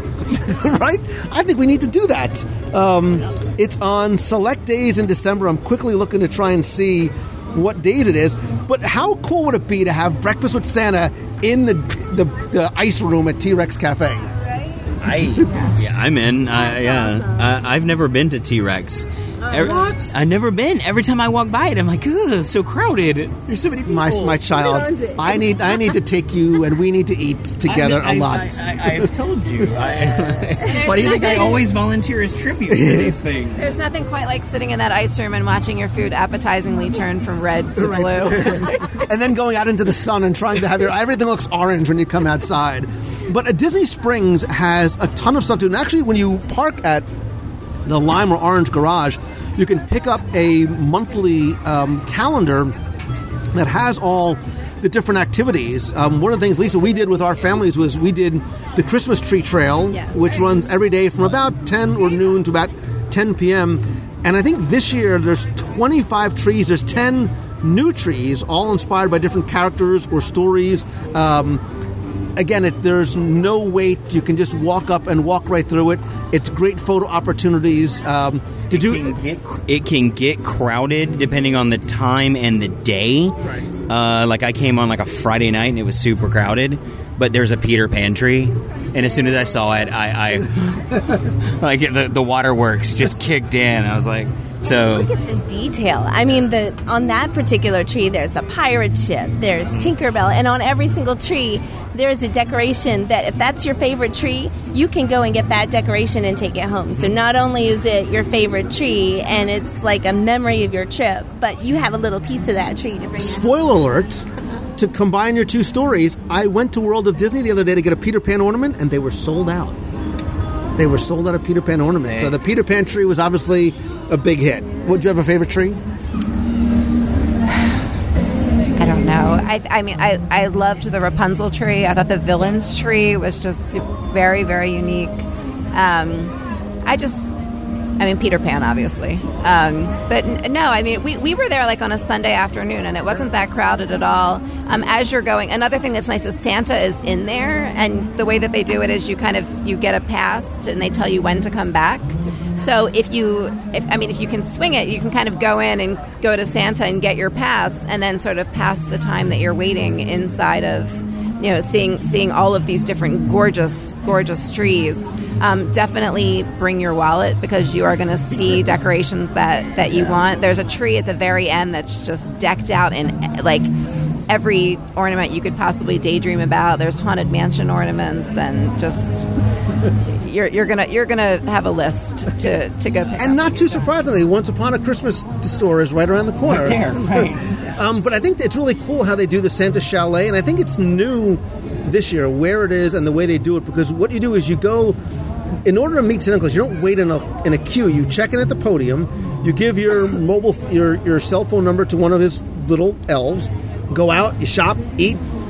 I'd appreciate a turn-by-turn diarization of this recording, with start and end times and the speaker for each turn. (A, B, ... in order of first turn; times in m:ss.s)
0:00.2-0:14.3 A
0:15.0-0:24.4 B
0:19.6-0:20.2 A
0:23.9-0:29.1 A
0:24.7-0:25.2 C
0:27.6-0:33.6 B
0:32.7-0:33.1 A
0:33.6-0:38.8 D
0:37.8-0:47.1 A
0:47.9-0:52.8 A
0:53.5-1:11.6 A
1:12.4-1:19.1 A
1:18.7-1:23.4 B
1:23.9-1:30.7 B
1:31.6-1:35.1 B
1:34.6-1:53.5 C
1:53.2-1:59.8 A
2:00.8-2:05.8 A
2:02.0-2:02.3 B
2:08.8-2:17.3 D
2:18.0-2:53.7 D
2:54.3-2:59.3 D
3:00.1-3:03.7 D
3:03.2-3:15.0 A
3:06.5-3:07.5 B
3:15.6-3:25.2 A